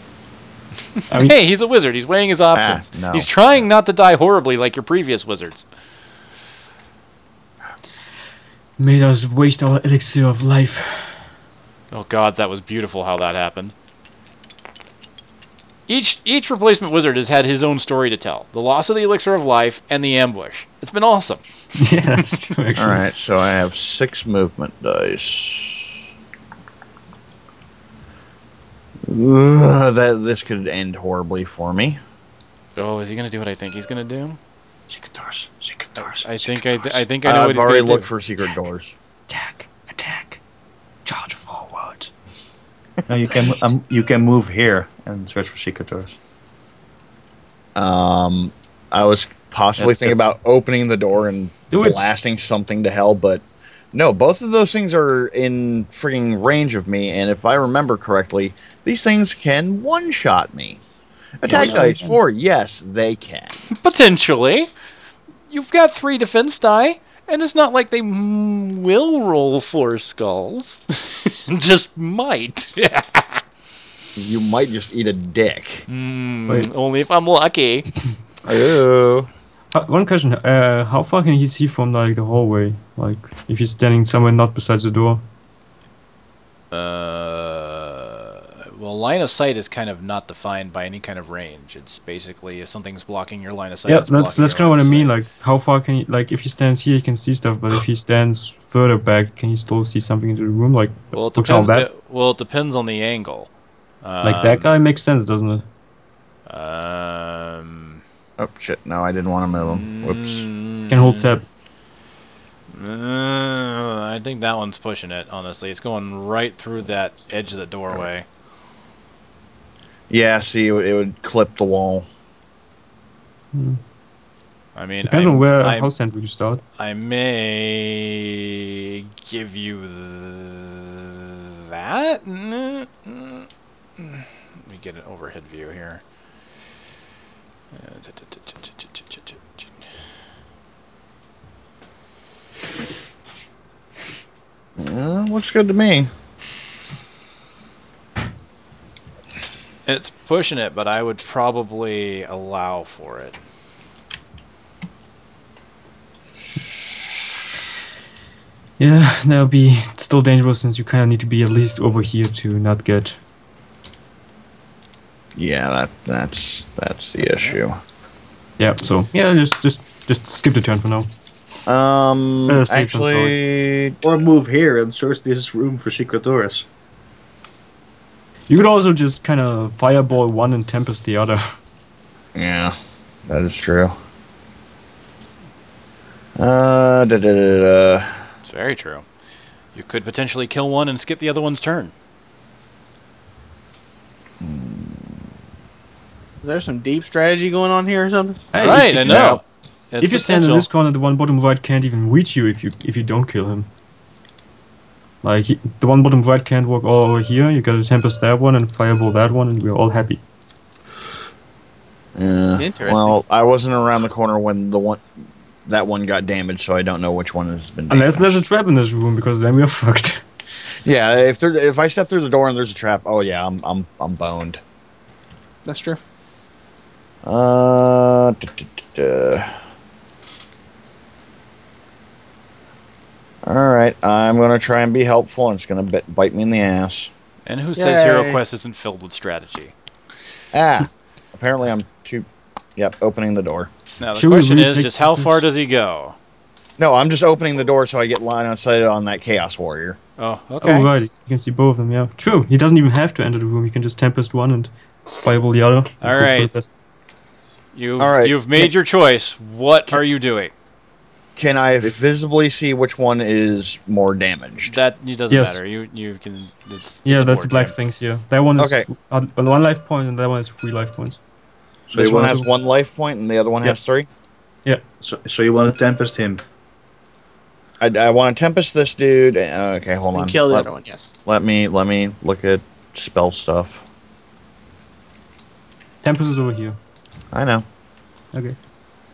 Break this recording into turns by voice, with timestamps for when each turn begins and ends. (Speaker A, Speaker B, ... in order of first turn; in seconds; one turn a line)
Speaker A: 1.1-1.4
Speaker B: 1.1-5.7
Speaker C: 2.5-3.3
Speaker A: 8.8-11.2
Speaker B: 11.9-13.7
Speaker B: 15.9-21.4
Speaker A: 21.8-23.0
Speaker C: 22.8-26.0
Speaker C: 29.1-32.0
Speaker B: 32.8-34.4
Speaker D: 34.9-37.0
Speaker B: 36.0-38.1
Speaker C: 37.2-39.0
Speaker A: 39.3-40.4
Speaker A: 41.0-42.1
Speaker D: 43.1-46.2
Speaker C: 47.8-60.8
Speaker D: 49.8-50.3
Speaker A: 51.7-52.0
Speaker C: 61.4-63.6
Speaker A: 61.5-62.2
Speaker B: 63.7-64.7
Speaker B: 65.5-73.4
Speaker C: 74.2-75.8
Speaker B: 75.9-77.9
Speaker C: 78.4-79.3
Speaker A: 79.7-85.2
Speaker B: 86.7-95.1
Speaker A: 93.9-101.9
Speaker B: 101.1-103.5
Speaker B: 104.0-104.7
Speaker A: 104.2-105.7
Speaker B: 106.5-108.0
Speaker C: 108.4-110.5
Speaker B: 109.6-111.3
Speaker A: 110.9-111.4
Speaker B: 112.7-118.2
Speaker C: 120.1-122.1
Speaker A: 123.5-123.8
Speaker B: 124.8-125.9
Speaker A: 125.0-126.6
Speaker B: 126.8-136.0
Speaker B: 137.7-139.7
Speaker C: 144.8-146.1
Speaker B: 149.9-153.4
Speaker A: 158.8-163.2
Speaker C: 165.4-167.8
Speaker B: 167.2-167.6
Speaker A: 168.6-171.1
Speaker C: 171.7-174.0
Speaker A: 172.5-173.4
Speaker D: 174.0-176.7
Speaker A: 178.5-181.6
Speaker C: 182.3-182.8
Speaker C: 183.3-183.9
Speaker C: 186.4-188.3
Speaker B: 188.5-189.1
Speaker B: 189.7-191.9
Speaker C: 194.4-195.2
Speaker E: 196.4-198.5
Speaker A: 198.5-199.4
Speaker B: 198.6-200.7
Speaker A: 200.0-203.7
Speaker A: 205.2-210.2
Speaker C: 212.2-215.1
Speaker E: 212.6-213.2
Speaker C: 215.7-218.4
Speaker A: 217.9-220.3
Speaker C: 220.8-224.6
Speaker E: 225.7-226.0
Speaker C: 227.2-229.6
Speaker C: 233.4-237.1
Speaker B: 237.5-239.7
Speaker E: 237.8-238.4
Speaker C: 240.5-243.7
Speaker B: 244.0-246.2
Speaker A: 244.2-245.4
Speaker C: 246.8-250.0
Speaker B: 250.2-250.9
Speaker A: 250.6-256.8
Speaker B: 256.0-256.5
Speaker B: 257.7-260.5
Speaker C: 258.0-258.7
Speaker C: 261.4-264.8
Speaker B: 264.6-267.7
Speaker A: 265.3-265.6
Speaker A: 267.1-271.2
Speaker C: 268.6-268.9
Speaker D: 271.9-272.3
Speaker C: 271.9-274.1
Speaker A: 272.0-272.4
Speaker D: 275.0-276.4
Speaker C: 277.8-280.7
Speaker E: 280.1-281.1
Speaker C: 281.3-283.9
Speaker A: 286.0-286.8
Speaker C: 287.3-287.6